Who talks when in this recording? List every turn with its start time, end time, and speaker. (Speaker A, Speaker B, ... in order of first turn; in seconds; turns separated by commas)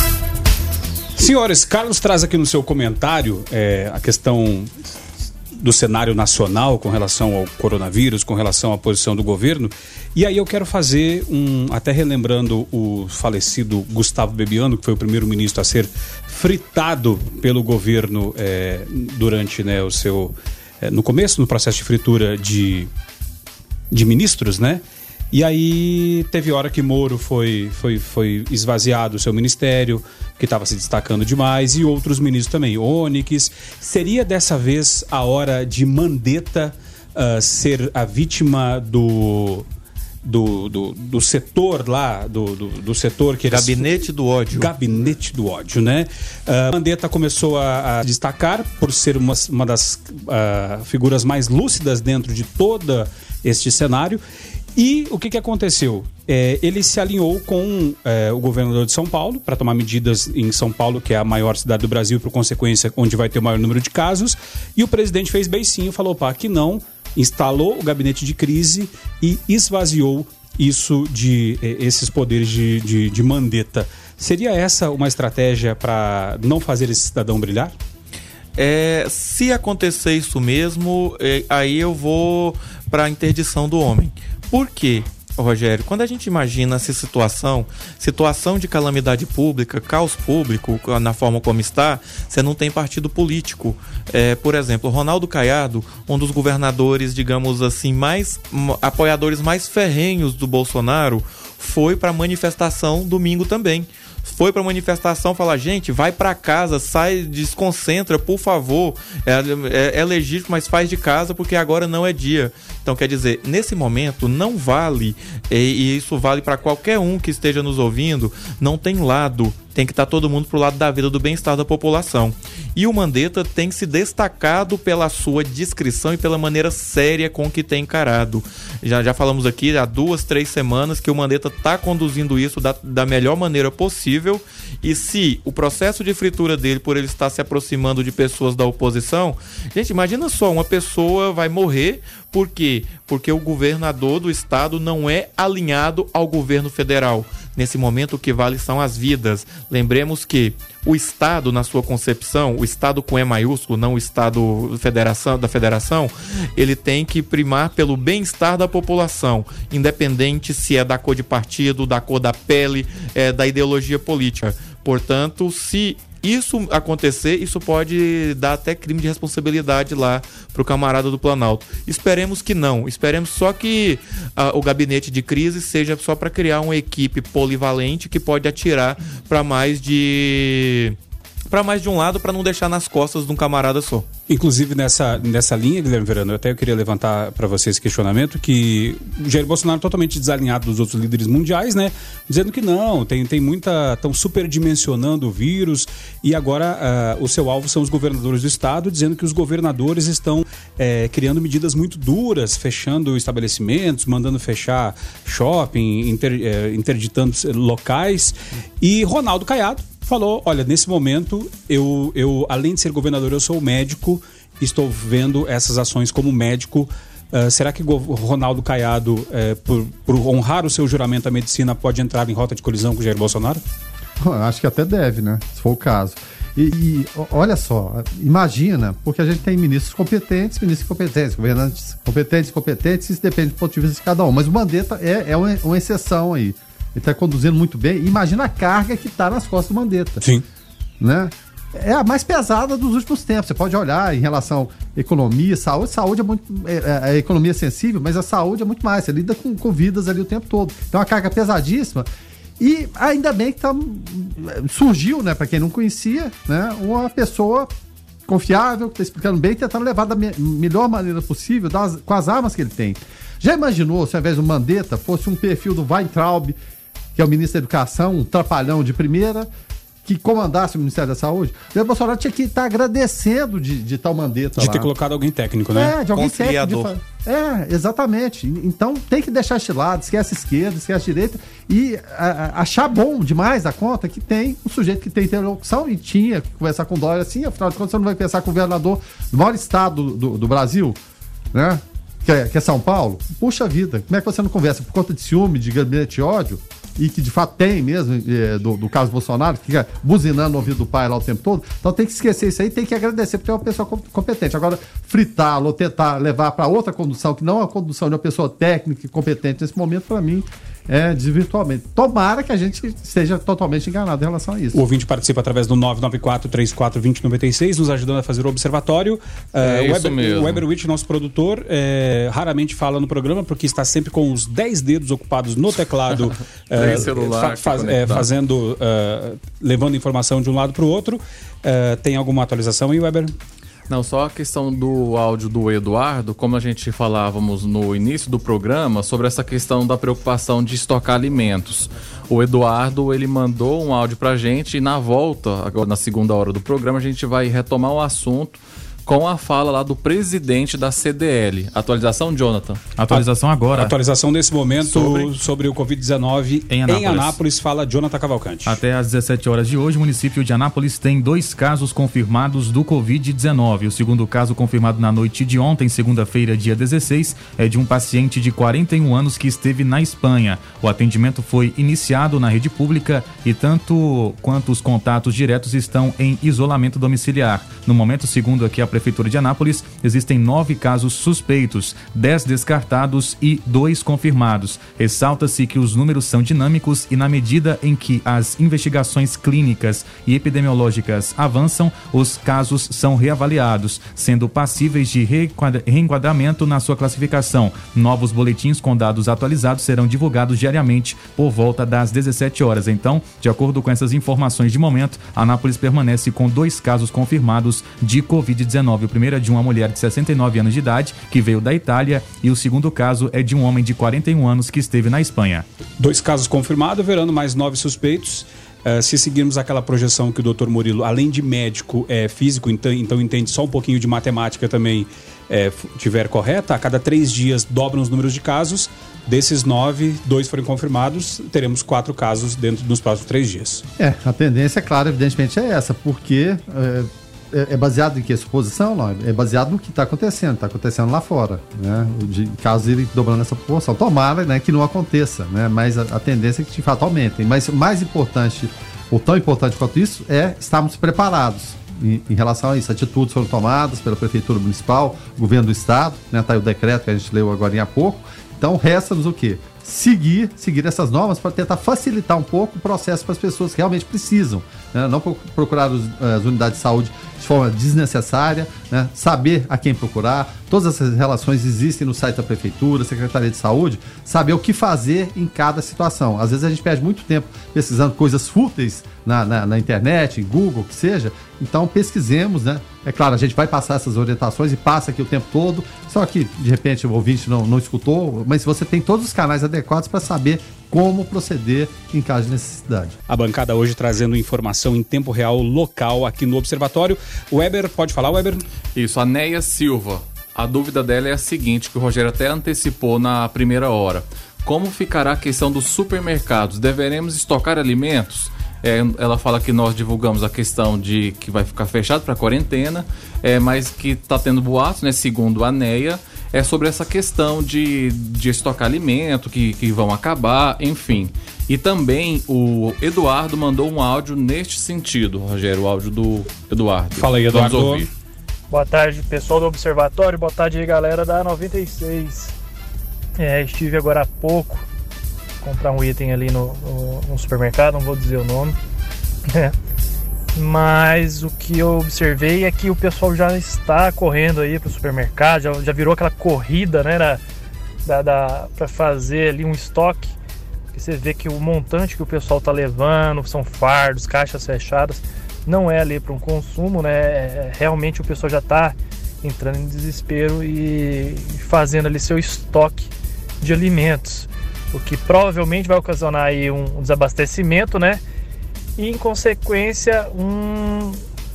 Speaker A: 1.1-4.7, Speaker A: 5.6-22.9, Speaker A: 23.9-39.6, Speaker A: 40.2-43.9, Speaker B: 43.5-44.7, Speaker A: 44.5-54.2, Speaker A: 54.8-77.7, Speaker B: 78.6-181.0, Speaker B: 181.5-184.1, Speaker A: 184.3-223.6, Speaker C: 224.2-240.2, Speaker C: 241.0-252.1, Speaker C: 252.6-257.7, Speaker C: 258.3-266.6, Speaker C: 267.1-269.5, Speaker C: 270.0-274.9, Speaker A: 274.6-275.9, Speaker C: 275.7-291.0, Speaker B: 276.1-276.9, Speaker C: 291.5-314.8, Speaker A: 314.7-333.3, Speaker D: 319.6-320.6, Speaker D: 326.7-328.3, Speaker D: 333.9-352.8, Speaker E: 353.0-353.9, Speaker A: 353.1-358.8, Speaker E: 356.7-357.4, Speaker E: 358.6-415.6, Speaker A: 416.0-433.8, Speaker C: 434.0-493.1, Speaker A: 493.3-498.6, Speaker D: 498.9-528.1, Speaker A: 527.1-528.1, Speaker F: 528.7-532.5, Speaker F: 533.4-534.9, Speaker F: 535.6-538.8, Speaker F: 540.5-547.4, Speaker F: 548.0-550.3, Speaker F: 550.9-563.1, Speaker F: 563.6-568.2, Speaker F: 569.0-571.2